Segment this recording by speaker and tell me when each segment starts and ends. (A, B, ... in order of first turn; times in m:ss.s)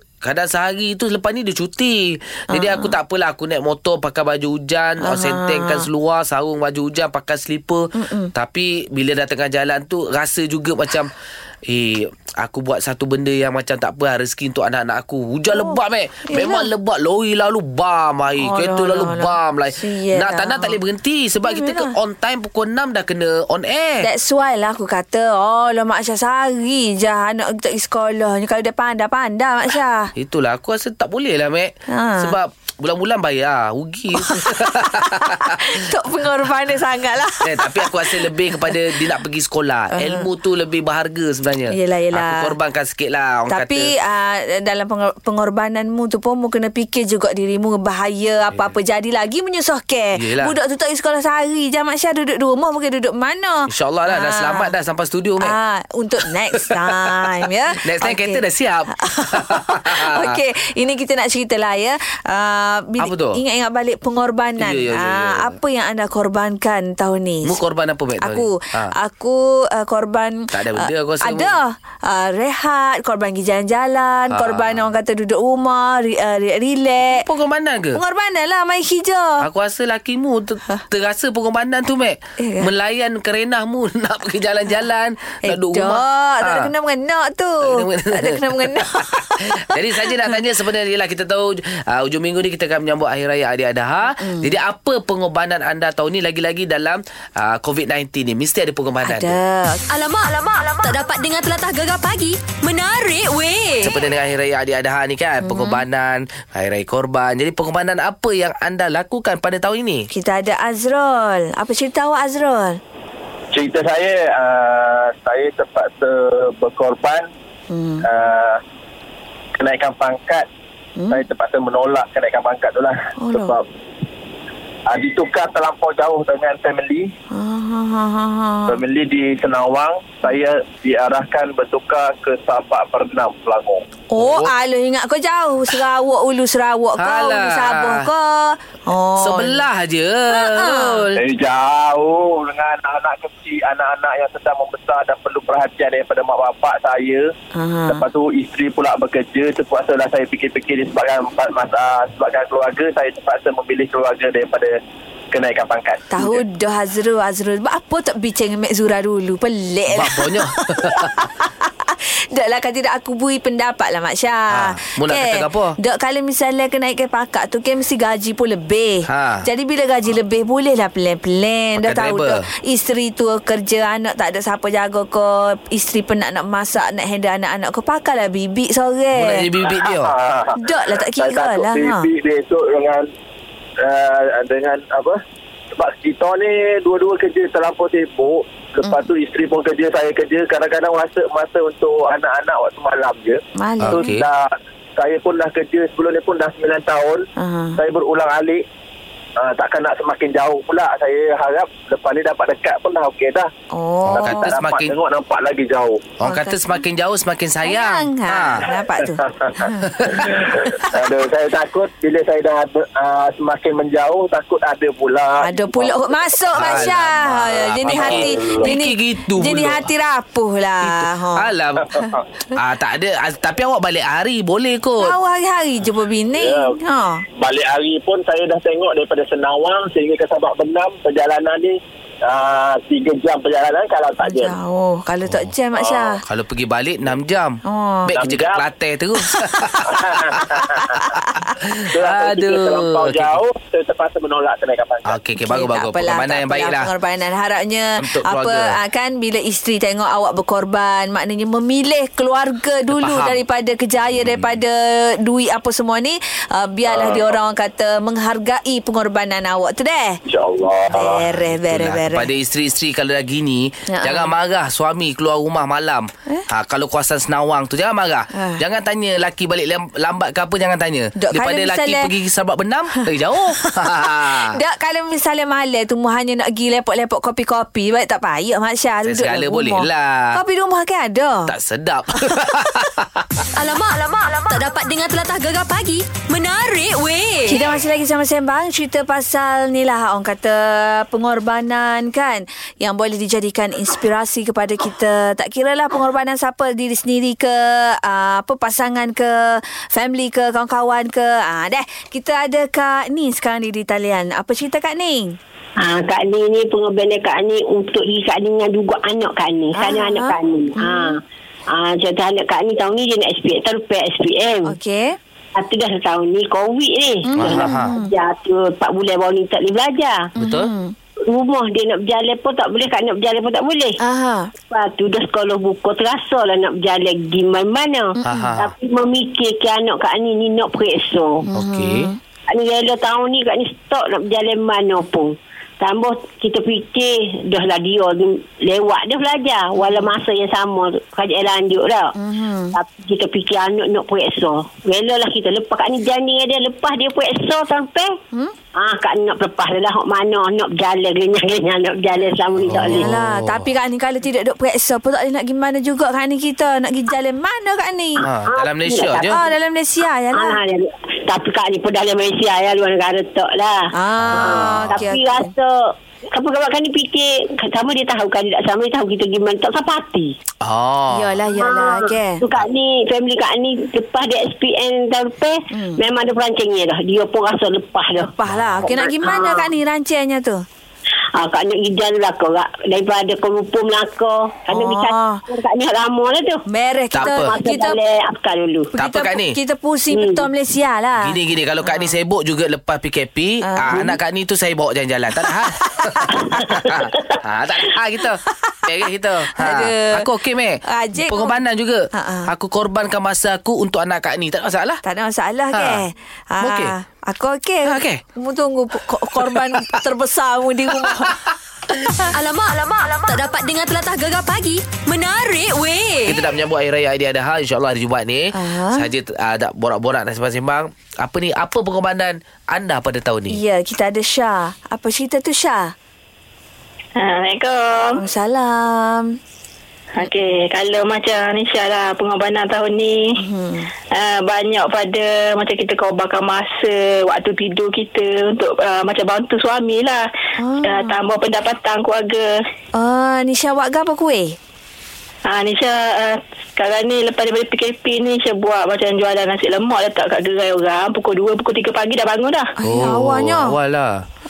0:00.2-0:11.1 A
0:02.5-0:02.9 B
0:05.0-0:05.9 B
0:08.0-0:08.3 B
0:11.7-0:24.1 A
0:15.5-0:16.7 B
0:18.4-0:20.8 B
0:21.4-0:21.9 B
0:24.0-0:30.1 B
0:30.2-0:35.6 A
0:31.9-0:32.4 B
0:34.2-0:39.0 B
0:37.4-0:43.9 A
0:39.9-0:40.2 B
0:41.7-0:42.5 B
0:43.5-0:54.7 B
0:50.2-0:50.5 A
0:53.7-0:55.6 A
0:55.4-0:58.4 B
0:56.7-0:57.3 A
0:57.8-1:00.3 A
0:59.0-1:07.6 B
1:03.0-1:03.4 A
1:04.6-1:05.6 A
1:07.4-1:08.9 A
1:08.2-1:17.2 B
1:10.5-1:11.6 A
1:14.3-1:14.9 A
1:17.1-1:18.0 A
1:17.9-1:19.4 B
1:19.4-1:26.7 A
1:22.4-1:22.7 B
1:25.4-1:30.4 B
1:27.6-1:39.4 A
1:34.1-1:34.5 B
1:39.0-1:39.8 B
1:39.9-1:43.9 C
1:43.8-1:50.1 A
1:45.4-1:45.8 B
1:50.1-1:52.8 B
1:53.5-1:57.2 D
1:57.7-1:58.0 B
1:58.0-1:58.6 D
1:59.6-2:00.4 D
2:01.0-2:01.2 B
2:01.1-2:03.6 D
2:03.2-2:03.6 B
2:04.9-2:07.1 D
2:07.3-2:08.8 B
2:08.7-2:13.8 D
2:14.1-2:19.6 B
2:14.2-2:14.5 A
2:17.0-2:18.1 A
2:19.2-2:21.2 A
2:20.3-2:21.0 B
2:21.1-2:27.3 D
2:27.5-2:28.0 B
2:27.9-2:34.7 D
2:35.3-2:36.4 D
2:36.1-2:59.4 B
2:39.9-2:41.2 A
2:44.5-2:45.7 A
2:49.1-2:49.4 A
2:51.8-2:52.4 A
2:59.2-3:00.1 A
2:59.8-3:00.6 D
3:00.6-3:02.1 B
3:01.2-3:03.1 D
3:03.8-3:05.2 D
3:05.8-3:14.4 D
3:13.6-3:14.1 B
3:13.8-3:14.2 A
3:15.0-3:17.2 D
3:17.4-3:17.8 B
3:17.8-3:18.6 D
3:19.4-3:23.5 D
3:23.7-3:24.5 B
3:24.1-3:24.9 A
3:24.1-3:26.1 D
3:26.2-3:28.7 A
3:26.2-3:26.6 B
3:27.6-3:30.6 B
3:30.0-3:30.2 A
3:30.3-3:36.9 D
3:35.4-3:42.2 B
3:36.5-3:39.9 A
3:37.8-3:38.7 D
3:40.8-3:42.0 A
3:42.5-3:45.2 A
3:45.0-3:47.2 B
3:46.4-3:46.8 D
3:47.4-3:54.5 D
3:54.2-3:56.2 B
3:55.2-3:55.5 A
3:55.7-3:56.1 D
3:56.3-3:59.9 A
3:57.6-3:58.1 B
3:58.2-3:58.6 D
3:59.2-3:59.9 B
3:59.8-4:00.4 D
4:00.6-4:01.5 B
4:01.9-4:05.2 D
4:02.0-4:03.4 A
4:05.0-4:06.9 A
4:05.4-4:20.2 B
4:08.0-4:08.8 A
4:12.9-4:13.4 A
4:14.2-4:14.5 A
4:16.8-4:17.3 D
4:20.3-4:21.2 D
4:20.9-4:22.3 B
4:21.3-4:34.6 A
4:23.9-4:24.3 B
4:28.4-4:28.6 B
4:31.2-4:32.1 B
4:32.9-4:41.5 B
4:39.0-4:40.4 A
4:41.5-4:43.4 A
4:43.5-4:47.6 C
4:47.5-5:05.4 B
5:05.8-5:11.2 E
5:09.8-5:11.2 B
5:11.7-5:14.7 E
5:14.6-5:15.2 B
5:15.5-5:20.3 E
5:17.3-5:18.1 B
5:17.4-5:17.9 A
5:20.4-5:20.9 B
5:20.4-5:20.7 A
5:21.2-5:24.0 E
5:24.0-5:24.5 B
5:24.7-5:31.4 E
5:28.2-5:28.6 B
5:28.2-5:28.7 A
5:31.5-5:32.2 B
5:31.5-5:32.1 A
5:32.5-5:42.1 E
5:39.8-5:40.1 B
5:42.2-5:42.8 B
5:42.7-5:48.2 E
5:48.8-5:53.1 E
5:52.6-5:53.6 A
5:52.9-5:58.2 B
5:58.2-5:59.4 A
5:58.4-5:59.4 E
5:59.3-6:00.6 B
6:00.3-6:10.3 E
6:03.9-6:05.5 B
6:04.2-6:05.1 A
6:10.6-6:11.4 A
6:11.1-6:12.4 B
6:11.6-6:18.3 E
6:15.7-6:16.0 B
6:18.2-6:20.6 B
6:18.5-6:18.8 A
6:18.8-6:19.7 E
6:21.4-6:26.6 E
6:24.7-6:25.4 B
6:26.7-6:28.0 B
6:27.1-6:27.5 A
6:27.2-6:28.9 E
6:28.9-6:31.3 B
6:29.0-6:29.6 A
6:30.1-6:30.4 E
6:31.2-6:45.0 A
6:31.8-6:32.2 B
6:33.6-6:34.2 B
6:39.5-6:40.2 B
6:40.8-6:42.5 B
6:45.0-6:51.4 B
6:45.7-6:46.0 A
6:46.6-6:47.0 A
6:47.8-6:48.2 A
6:49.4-6:50.0 A
6:51.0-6:51.3 A
6:52.3-6:56.4 C
6:56.2-7:03.6 A
6:58.5-6:59.1 B
7:03.5-7:05.9 B
7:07.2-7:08.2 F
7:08.2-7:09.4 B
7:10.2-7:13.4 F
7:13.4-7:13.9 B
7:14.1-7:20.2 F
7:20.6-7:21.2 B
7:20.8-7:22.5 F
7:23.0-7:24.6 B
7:25.4-7:32.7 F
7:32.8-7:33.7 B
7:32.8-7:34.2 A